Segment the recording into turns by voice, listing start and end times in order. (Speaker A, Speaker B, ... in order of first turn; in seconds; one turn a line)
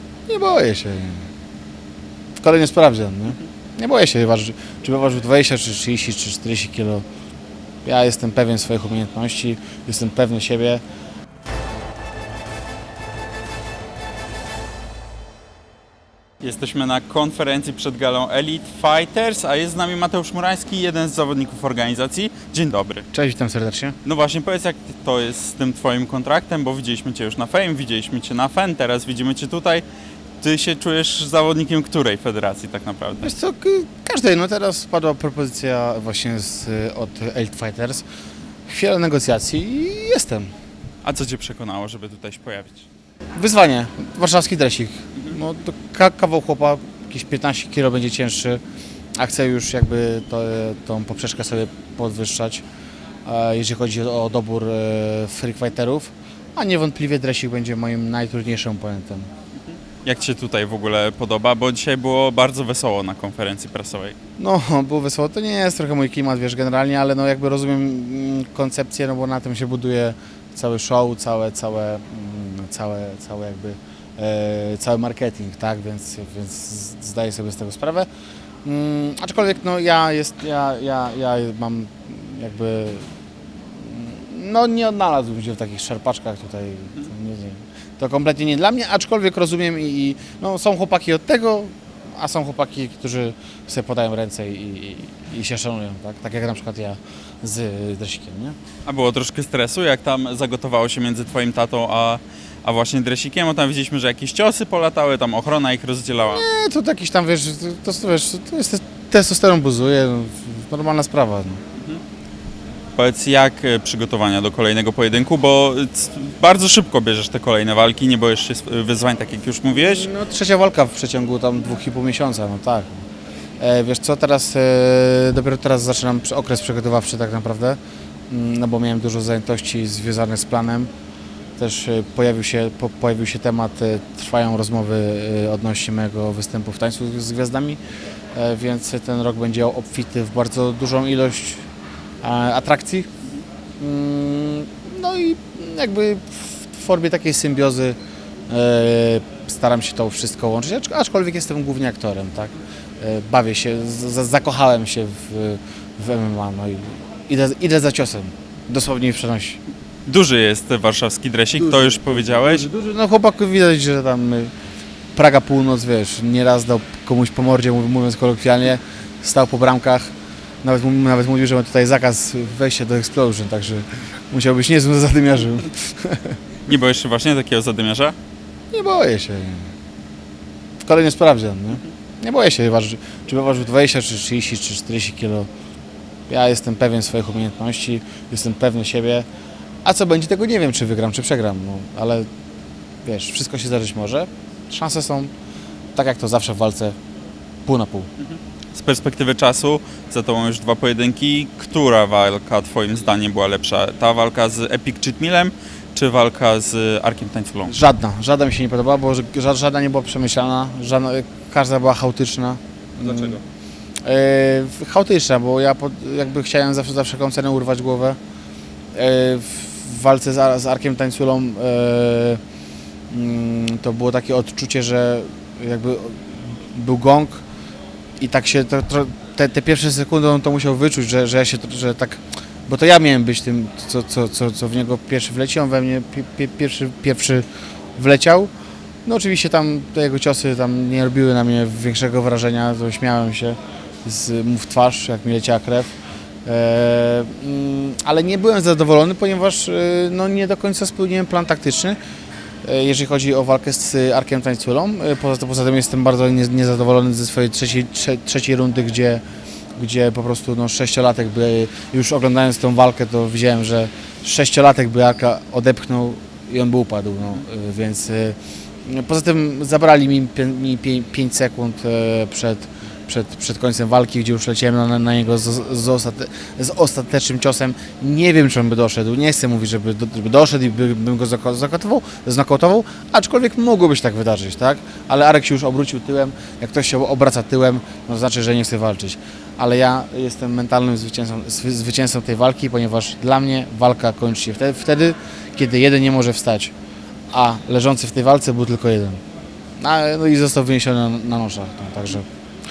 Speaker A: 0.3-1.3
Speaker A: 2.4-7.0
Speaker A: 7.8-10.8
Speaker B: 16.4-23.1
Speaker A: 23.1-24.0
Speaker B: 24.0-29.8
Speaker B: 30.4-33.3
Speaker A: 33.2-38.0
Speaker A: 38.7-40.5
Speaker B: 41.0-42.9
Speaker A: 43.4-48.6
Speaker A: 49.2-52.6
Speaker A: 53.2-59.3
Speaker B: 60.0-64.2
Speaker A: 64.4-78.1
Speaker A: 78.6-98.5
Speaker B: 98.8-106.4
Speaker A: 106.2-111.6
Speaker B: 111.7-112.0
Speaker B: 113.0-120.1
Speaker A: 119.8-123.0
Speaker A: 123.6-130.9
Speaker A: 131.6-137.8
Speaker A: 138.3-141.6
Speaker A: 142.2-143.1
Speaker A: 143.8-148.0
Speaker A: 148.5-159.6
Speaker B: 160.1-162.7
Speaker A: 161.6-164.5
Speaker A: 165.1-176.3
Speaker B: 176.7-178.1
Speaker A: 178.7-179.7
Speaker A: 180.8-185.5
Speaker A: 186.3-189.3
Speaker A: 189.8-192.3
Speaker A: 193.0-195.3
Speaker A: 195.9-196.9
Speaker A: 197.6-198.1
Speaker B: 198.2-207.7
Speaker A: 207.7-213.4
Speaker B: 213.0-213.4
Speaker A: 214.0-218.2
Speaker A: 218.9-222.4
Speaker A: 223.1-227.4
Speaker A: 228.2-237.4
Speaker A: 237.9-238.5
Speaker A: 239.0-245.9
Speaker A: 246.4-252.0
Speaker A: 252.6-259.2
Speaker A: 259.8-296.7
Speaker A: 297.3-299.2
Speaker A: 299.8-302.3